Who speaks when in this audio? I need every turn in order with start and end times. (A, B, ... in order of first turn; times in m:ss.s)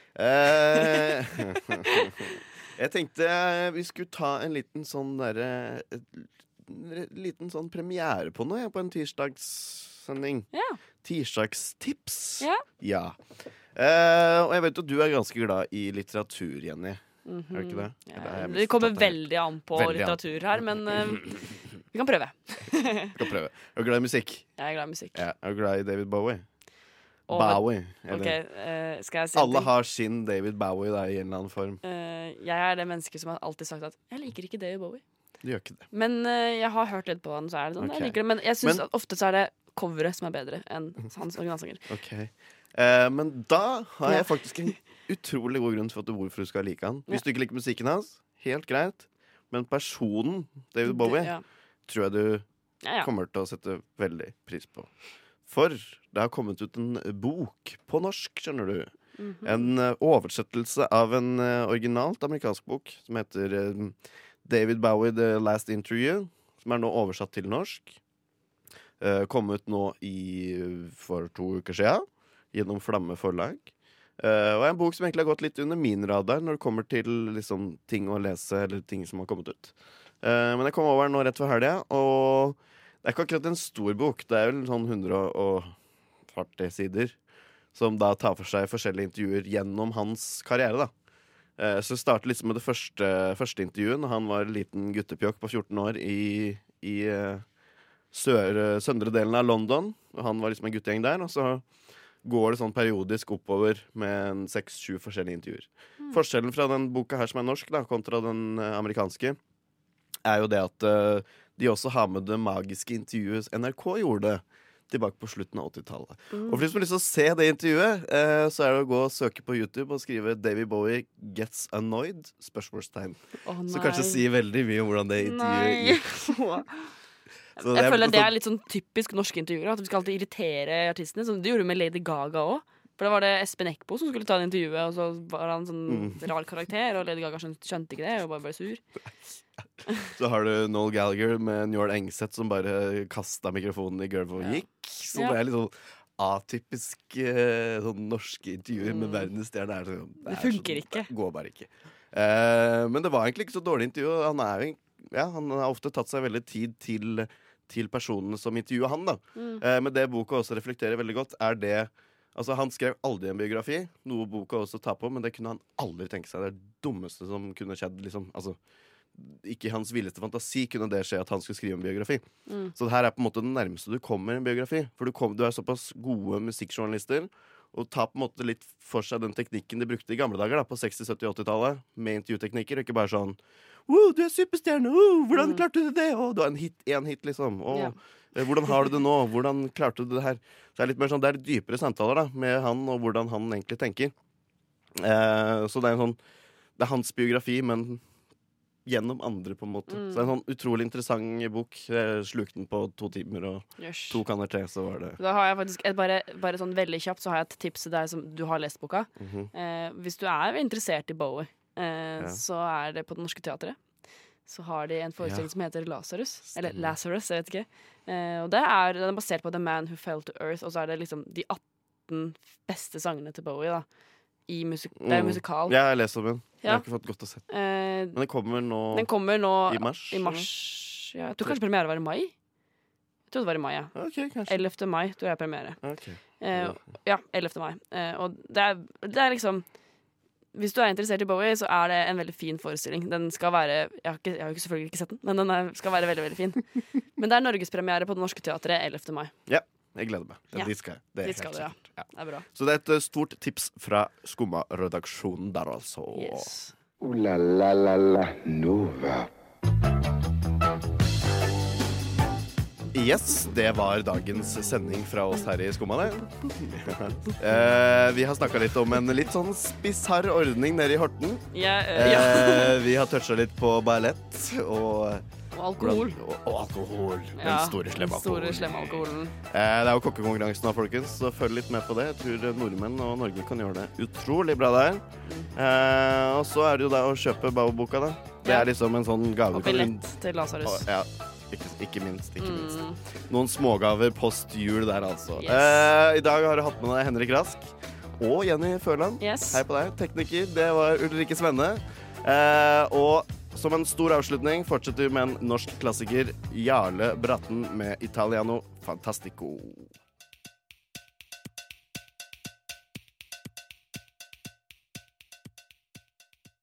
0:00.1-0:10.5 A
0:00.7-0:01.1 B
0:10.5-0:10.8 B
0:11.0-0:13.2 A
0:13.7-0:21.3 A
0:17.2-0:21.3 B
0:21.9-0:23.2 B
0:23.1-0:24.5 A
0:24.6-0:25.2 B
0:25.1-0:26.4 A
0:27.3-0:29.7 B
0:27.3-0:28.4 A
0:29.3-0:31.8 A
0:31.8-0:35.0 B
0:35.4-0:35.8 A
0:35.9-0:41.8 B
0:37.8-0:38.8 A
0:41.9-0:51.3 A
0:50.8-0:51.4 B
0:51.8-0:52.4 A
0:52.8-0:53.1 B
0:53.0-0:54.9 A
0:55.5-0:58.9 A
0:59.2-0:59.7 B
0:59.4-1:08.0 A
1:09.0-1:25.7 A
1:26.3-1:27.2 A
1:27.7-1:30.9 A
1:31.6-1:37.4 A
1:38.1-1:41.6 A
1:42.2-1:49.4 A
1:50.2-2:06.6 A
1:56.3-1:56.6 B
2:03.4-2:04.2 B
2:05.2-2:06.6 B
2:07.6-2:18.8 B
2:07.6-2:08.3 A
2:15.9-2:16.2 A
2:20.0-2:48.6 A
2:24.4-2:25.4 B
2:28.8-2:29.3 B
2:30.2-2:31.1 B
2:39.4-2:39.6 B
2:49.1-3:14.1 A
2:52.5-2:52.7 B
3:05.4-3:05.6 B
3:14.9-3:16.2 A
3:16.8-3:18.0 A
3:18.8-3:25.2 A
3:19.9-3:20.3 B
3:23.8-3:24.2 B
3:25.2-3:33.8 B
3:29.2-3:29.5 A
3:34.4-3:43.8 B
3:35.2-3:35.5 A
3:36.5-3:36.9 A
3:44.5-3:45.8 B
3:45.0-3:47.4 A
3:47.5-3:48.2 B
3:48.1-3:49.1 A
3:48.9-3:52.3 B
3:49.6-3:50.5 A
3:53.3-3:53.9 B
3:53.9-3:54.6 A
3:54.5-3:55.8 B
3:55.8-3:56.8 A
3:56.4-3:59.6 B
4:00.5-4:06.6 B
4:07.2-4:09.3 B
4:09.5-4:16.5 A
4:10.5-4:12.4 B
4:16.1-4:16.7 B
4:17.0-4:19.3 C
4:22.9-4:35.2 A
4:31.5-4:32.8 B
4:35.5-4:36.2 B
4:35.8-4:45.0 A
4:37.4-4:39.3 B
4:45.5-4:50.1 A
4:48.4-4:48.7 B
4:49.5-4:50.8 B
4:50.6-5:09.9 A
4:52.4-4:53.0 B
4:55.4-4:55.9 B
4:59.2-4:59.6 B